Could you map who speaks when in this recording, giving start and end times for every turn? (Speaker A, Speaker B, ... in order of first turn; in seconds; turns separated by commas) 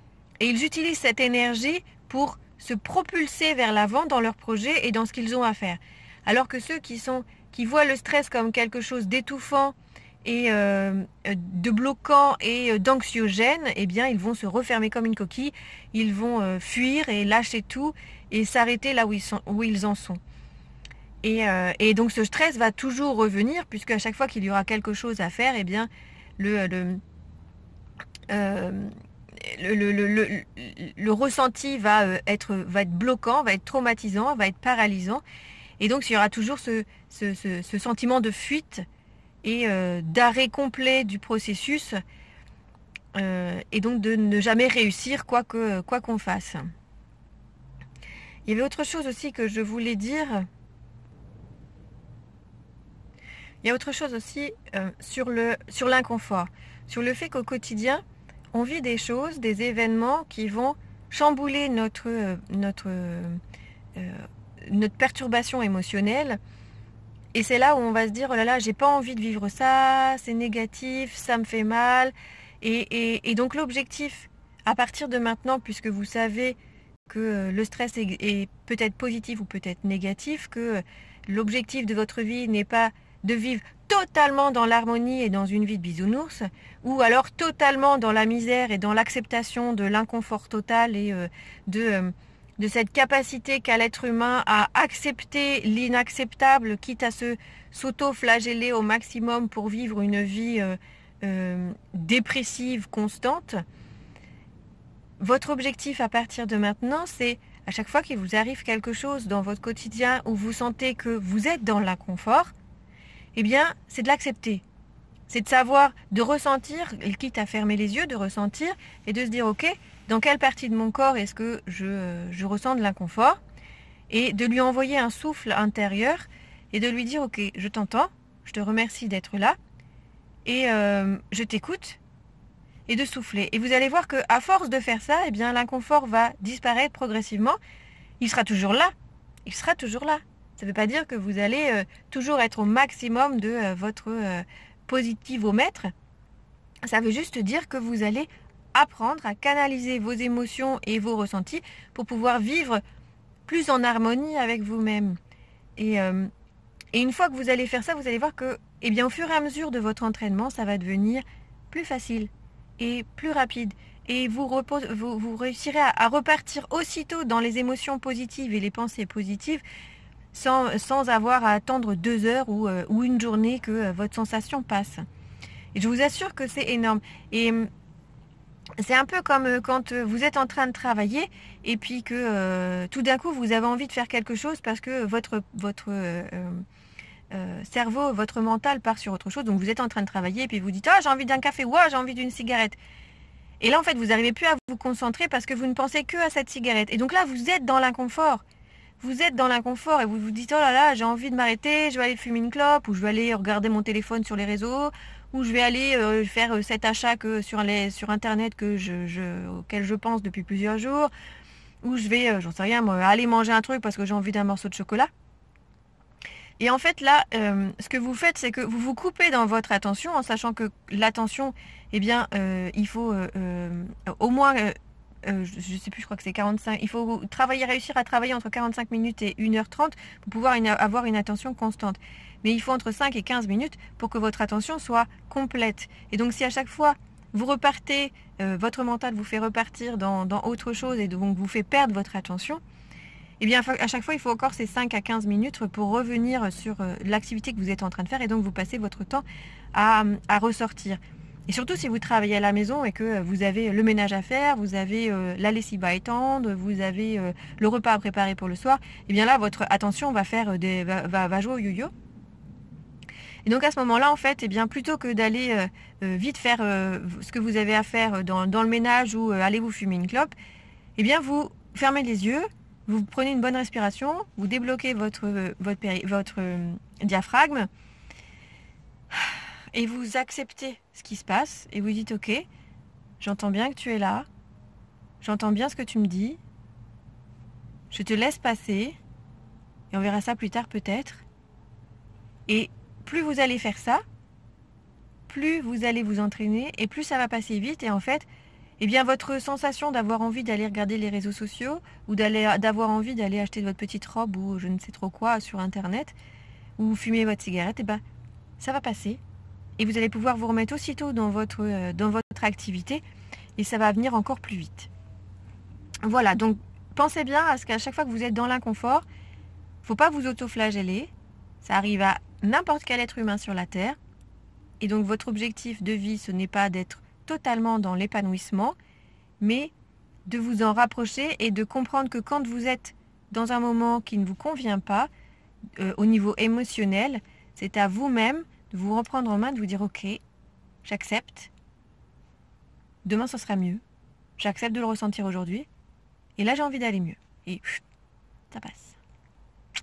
Speaker A: 0.4-20.2, Speaker A: 21.2-27.0, Speaker A: 28.3-35.2, Speaker A: 35.8-38.9, Speaker A: 39.4-42.0, Speaker A: 43.1-46.7, Speaker A: 48.5-50.5, Speaker A: 53.6-58.0, Speaker A: 58.5-63.4, Speaker A: 64.0-66.4, Speaker A: 67.3-76.6, Speaker A: 77.1-103.6, Speaker A: 105.2-112.5, Speaker A: 113.3-114.6, Speaker A: 115.3-123.4, Speaker A: 124.1-129.6, Speaker A: 130.4-132.0, Speaker A: 132.9-137.6, Speaker A: 138.2-138.9, Speaker A: 139.4-145.9, Speaker A: 146.8-152.8, Speaker A: 153.5-155.2, Speaker A: 155.8-156.3, Speaker A: 156.9-169.6, Speaker A: 170.3-175.0, Speaker A: 175.7-177.7, Speaker A: 178.8-186.6, Speaker A: 187.3-192.8, Speaker A: 193.6-198.4, Speaker A: 199.0-211.1, Speaker A: 211.8-215.1, Speaker A: 216.6-242.6, Speaker A: 243.4-261.9, Speaker A: 263.4-270.3, Speaker A: 271.0-277.7, Speaker A: 279.1-282.5, Speaker A: 283.2-284.3, Speaker A: 285.2-286.4, Speaker A: 287.9-289.0, Speaker A: 289.9-291.2, Speaker A: 292.5-294.0, Speaker A: 295.3-298.3, Speaker A: 298.8-306.1, Speaker A: 306.8-308.0, Speaker A: 308.6-309.2, Speaker A: 309.8-313.0, Speaker A: 313.6-314.9, Speaker A: 316.0-319.1, Speaker A: 319.8-321.1, Speaker A: 321.6-324.0, Speaker A: 324.8-328.8, Speaker A: 329.4-329.7, Speaker A: 330.3-335.1, Speaker A: 335.8-340.2, Speaker A: 340.8-341.5, Speaker A: 343.1-343.8, Speaker A: 344.4-345.7, Speaker A: 346.4-347.8, Speaker A: 348.5-349.0